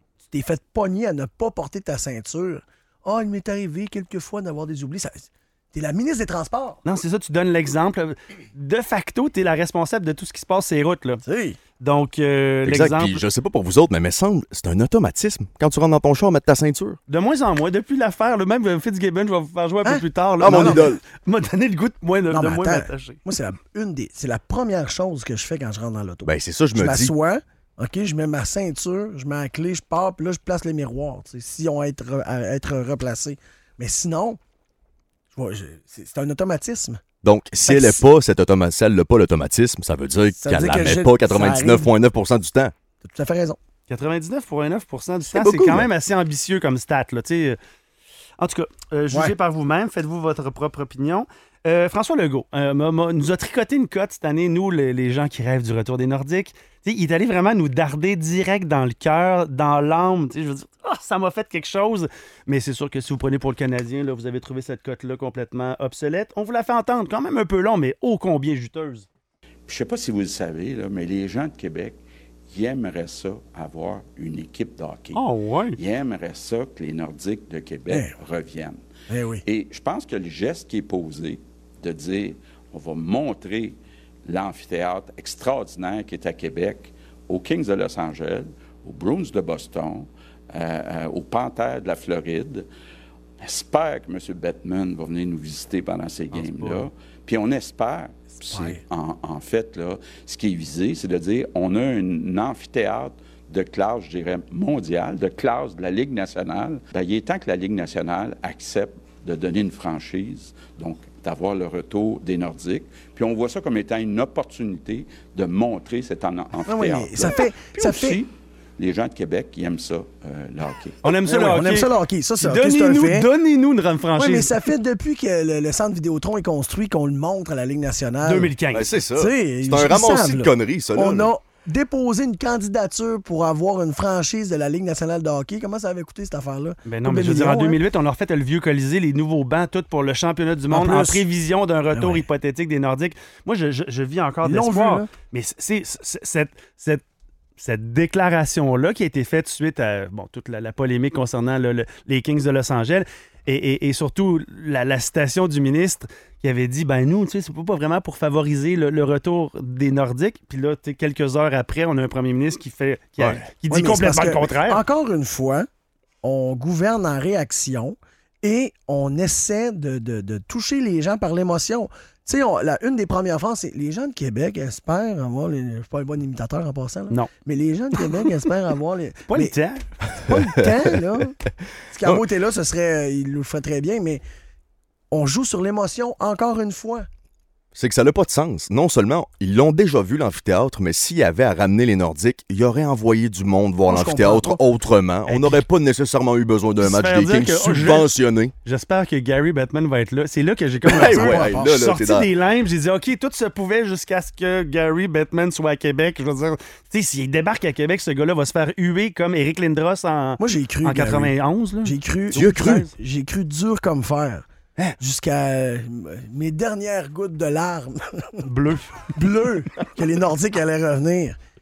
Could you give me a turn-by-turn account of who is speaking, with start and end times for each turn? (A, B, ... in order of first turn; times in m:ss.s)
0:00.3-0:06.8 A
0:06.8-0:11.2 B
0:11.2-0:11.6 A
0:11.8-0:13.2 B
0:12.6-0:17.0 C
0:17.1-0:23.2 B
0:19.8-0:20.9 A
0:20.4-0:21.0 C
0:22.3-0:34.4 A
0:26.3-0:27.1 C
0:35.3-0:37.0 A
0:37.2-0:42.7 C
0:37.6-0:38.0 A
0:40.4-0:41.9 A
0:43.0-0:43.6 A
0:43.9-0:47.6 B
0:45.3-0:45.9 C
0:48.4-1:09.1 B
1:09.7-1:12.0 D
1:12.5-1:15.2 D
1:15.2-1:15.8 B
1:15.8-1:18.8 D
1:17.9-1:18.2 A
1:19.1-1:19.4 A
1:19.4-1:32.7 D
1:33.4-2:01.0 D
1:36.3-1:36.9 B
1:38.5-1:38.8 A
1:56.7-1:58.2 A
2:01.0-2:04.6 B
2:01.2-2:03.3 A
2:04.2-2:08.5 A
2:08.2-2:08.9 B
2:08.7-2:11.3 C
2:09.2-2:17.8 A
2:16.9-2:27.0 B
2:20.7-2:21.2 A
2:21.9-2:22.3 A
2:24.4-2:25.1 A
2:27.6-2:44.8 B
2:43.7-2:45.7 A
2:46.2-2:59.6 A
2:58.0-2:58.2 B
2:59.3-2:59.8 B
3:00.2-3:01.4 A
3:01.9-3:04.2 A
3:05.1-3:07.1 A
3:07.8-3:18.5 C
3:13.9-3:14.6 A
3:15.3-3:15.6 B
3:16.8-3:18.1 B
3:18.6-3:32.9 B
3:20.9-3:22.3 C
3:21.0-3:21.8 A
3:30.4-3:34.5 A
3:32.4-3:32.8 C
3:35.0-3:38.4 A
3:38.4-3:39.1 B
3:39.1-3:41.4 A